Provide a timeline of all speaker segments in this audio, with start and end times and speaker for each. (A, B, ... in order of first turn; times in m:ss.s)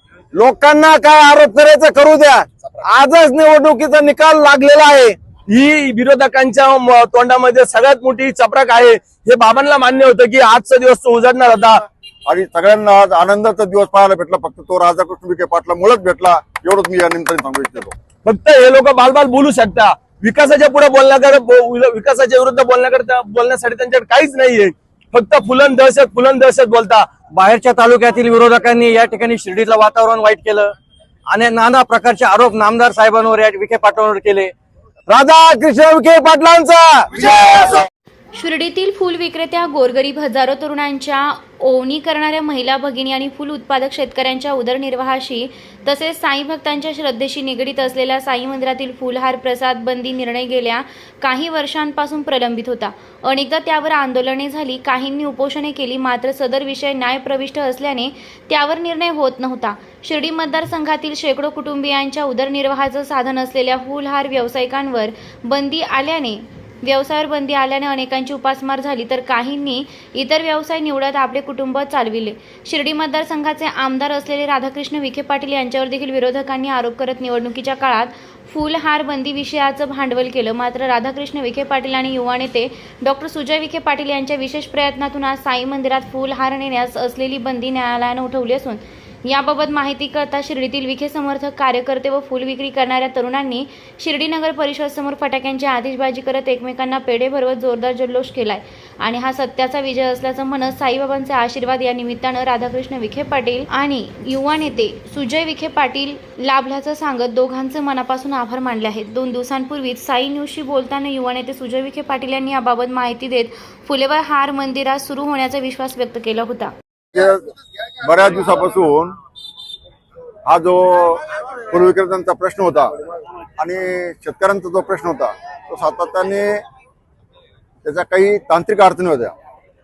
0:00.4-0:05.2 A
0:05.5-0:11.8 B
0:12.3-0:17.9 C
0:18.2-0:27.1 B
0:27.3-0:30.7 D
0:31.3-0:34.5 D
0:35.1-0:37.9 A
0:38.3-1:56.7 E
1:57.1-1:57.4 C
1:58.0-1:59.2 C
2:00.5-2:02.9 C
2:03.6-2:06.6 C
2:07.8-2:09.3 C